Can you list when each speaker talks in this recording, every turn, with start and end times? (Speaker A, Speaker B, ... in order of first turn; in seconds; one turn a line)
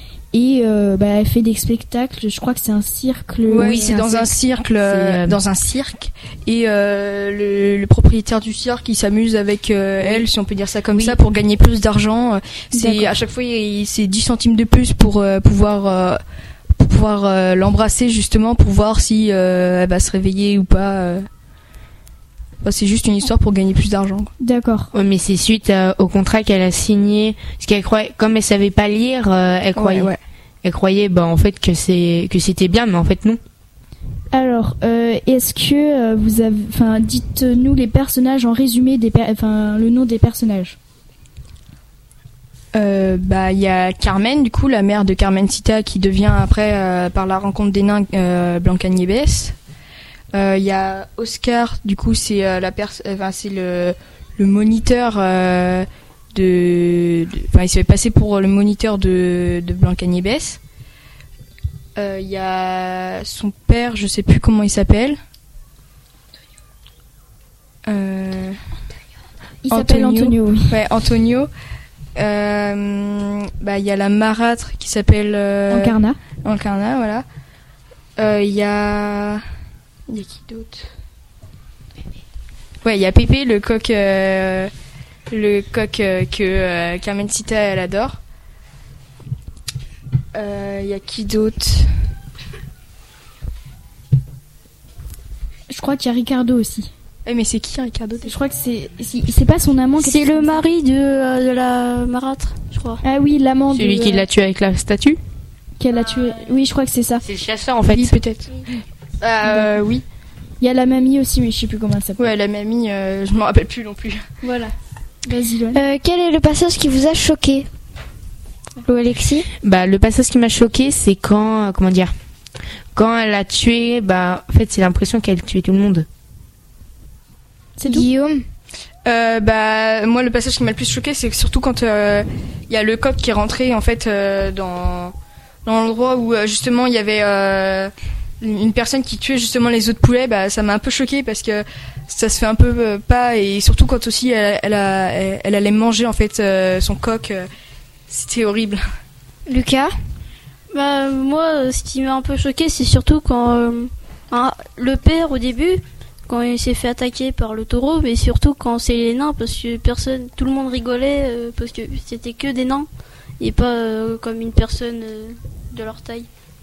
Speaker A: 0.3-4.0
Speaker B: 3.5-16.2
Speaker C: 3.6-5.4
Speaker C: 10.0-10.3
Speaker A: 12.7-13.1
Speaker B: 16.8-21.2
Speaker B: 22.6-24.3
Speaker A: 24.4-24.9
Speaker C: 24.9-30.1
Speaker B: 29.8-30.2
Speaker C: 30.6-33.4
Speaker A: 34.3-40.8
Speaker B: 42.8-49.5
Speaker B: 50.3-60.6
Speaker B: 62.0-65.2
Speaker B: 67.9-68.5
Speaker A: 69.7-70.8
Speaker B: 69.7-71.5
Speaker B: 72.2-75.9
Speaker A: 75.7-76.2
Speaker B: 76.4-77.2
Speaker B: 78.2-79.4
Speaker B: 80.1-80.8
Speaker B: 82.8-84.7
Speaker B: 85.3-88.2
Speaker B: 90.3-91.8
Speaker A: 95.7-96.9
Speaker B: 97.3-98.3
Speaker A: 98.2-100.6
Speaker D: 100.0-103.0
Speaker A: 103.0-104.3
Speaker C: 103.7-105.2
Speaker A: 105.8-107.2
Speaker C: 107.2-108.2
Speaker B: 107.9-108.5
Speaker B: 109.2-110.0
Speaker A: 110.6-112.3
Speaker B: 112.2-114.2
Speaker A: 114.4-114.7
Speaker A: 115.3-115.8
Speaker E: 115.8-117.7
Speaker E: 118.8-119.5
Speaker C: 119.6-122.1
Speaker C: 123.0-126.1
Speaker A: 127.8-128.1
Speaker E: 127.9-128.5
Speaker B: 129.1-135.1
Speaker B: 135.7-137.9
Speaker B: 138.4-147.5
Speaker B: 148.1-148.8
Speaker E: 149.5-149.9
Speaker D: 150.7-162.9
Speaker D: 163.4-166.3